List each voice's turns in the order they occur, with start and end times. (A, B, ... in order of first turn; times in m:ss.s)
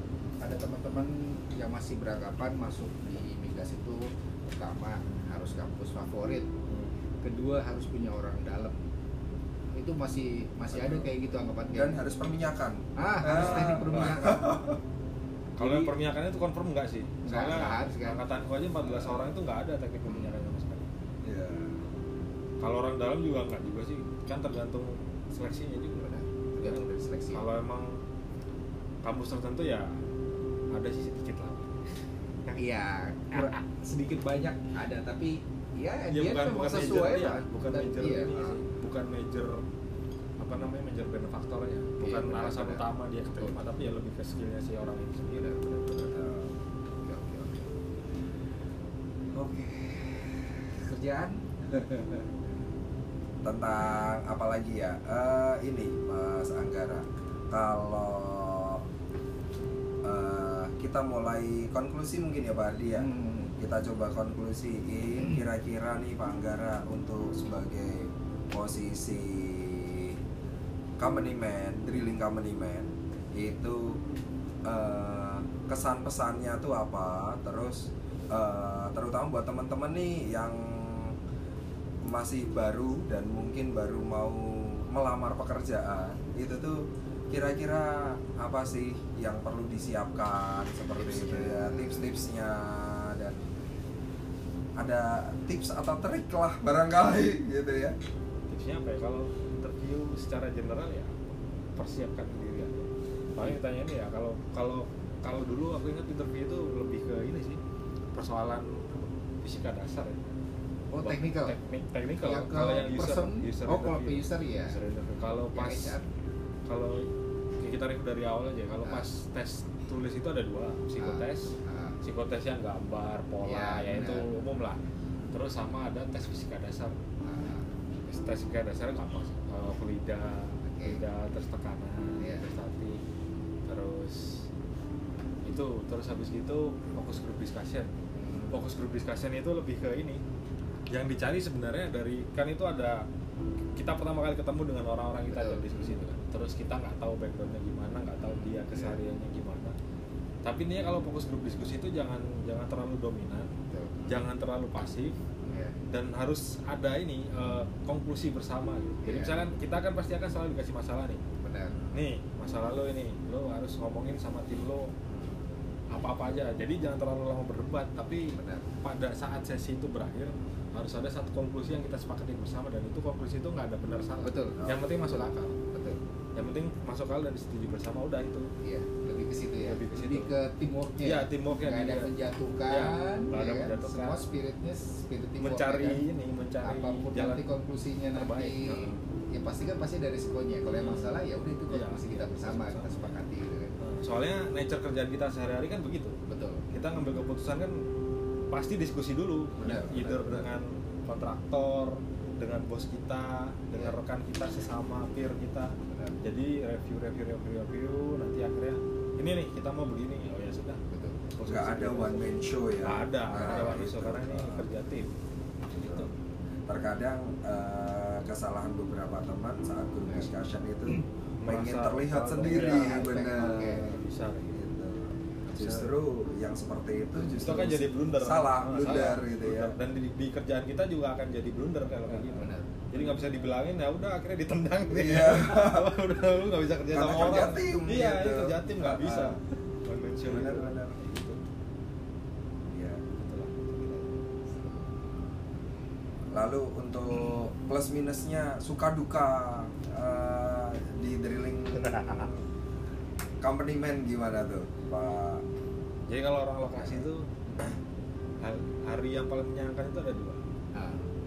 0:00.4-0:06.5 A
0:07.2-0:08.8 A
0:09.7-0:12.0 A
0:10.8-0:11.0 B
0:11.7-0:14.8 B
0:13.0-0:14.6 A
0:13.4-0:14.3 C
0:15.6-0:20.9 C
0:15.6-0:15.9 A
0:17.2-0:18.2 A
0:20.1-0:20.4 A
0:21.2-0:21.8 B
0:22.6-0:28.0 C
0:26.0-0:27.5 A
0:29.0-0:30.0 C
0:30.7-0:31.8 C
0:32.6-0:38.6 A
0:36.1-0:39.7 C
0:40.4-0:45.6 C
0:42.0-0:42.9 A
0:45.4-0:46.2 A
0:46.1-0:46.5 B
0:47.0-0:47.7 A
0:49.4-0:52.3 A
0:49.6-0:50.0 B
0:53.4-0:58.8 B
1:00.0-1:10.2 B
1:03.0-1:03.5 A
1:05.2-1:05.4 A
1:11.0-1:14.0 B
1:14.6-1:21.2 B
1:22.0-1:33.5 B
1:31.0-1:32.1 A
1:34.8-1:38.0 B
1:38.5-1:41.2 C
1:41.8-1:47.6 C
1:48.1-1:50.2 C
1:50.9-1:51.6 A
1:51.0-1:56.0 C
1:52.2-1:54.8 A
1:55.5-1:56.0 A
1:56.7-1:57.1 C
1:57.6-2:07.0 C
2:01.0-2:02.0 A
2:03.4-2:04.3 A
2:07.2-2:07.7 A
2:08.1-2:13.0 C
2:10.7-2:11.0 A
2:12.2-2:12.4 A
2:13.7-2:14.5 C
2:15.4-2:17.9 C
2:18.1-2:18.6 A
2:18.5-2:20.2 C
2:20.9-2:23.1 C
2:23.8-2:29.8 C
2:25.3-2:26.0 A
2:28.7-2:29.0 A
2:30.4-2:33.5 C
2:33.7-2:34.2 A
2:34.0-2:35.2 C
2:35.4-2:35.8 A
2:35.9-2:41.2 C
2:39.0-2:39.4 A
2:41.4-2:41.8 A
2:41.9-2:44.9 C
2:45.9-2:55.6 C
2:48.4-2:48.7 A
2:54.2-2:56.0 A
2:54.6-2:55.0 B
2:56.4-2:58.5 C
2:58.6-3:06.0 A
2:59.6-3:00.3 C
3:01.0-3:02.1 C
3:02.7-3:04.2 C
3:05.4-3:07.4 C
3:06.6-3:13.8 A
3:08.1-3:09.0 C
3:10.8-3:13.2 C
3:13.8-3:16.2 C
3:16.3-3:16.6 A
3:16.7-3:17.8 C
3:18.5-3:30.8 C
3:19.6-3:20.5 A
3:25.9-3:26.2 A
3:30.9-3:31.3 A
3:31.4-3:32.3 C
3:31.4-3:34.7 B
3:32.8-3:35.1 C
3:33.4-3:33.7 A
3:35.7-3:36.1 B
3:36.7-3:44.0 B
3:41.4-3:44.6 C
3:42.4-3:44.0 A
3:44.5-3:49.8 B
3:45.5-3:45.9 C
3:47.4-4:01.4 C
3:52.1-3:52.7 A
3:54.9-3:55.9 B
3:56.9-3:59.4 B
4:00.2-4:01.0 B
4:02.7-4:03.0 B
4:03.2-4:03.7 C
4:03.7-4:04.7 A
4:06.3-4:12.4 B
4:11.7-4:12.3 C
4:13.4-4:15.4 B
4:16.1-4:17.7 C
4:16.8-4:17.1 B
4:18.4-4:20.4 C
4:20.7-4:21.1 A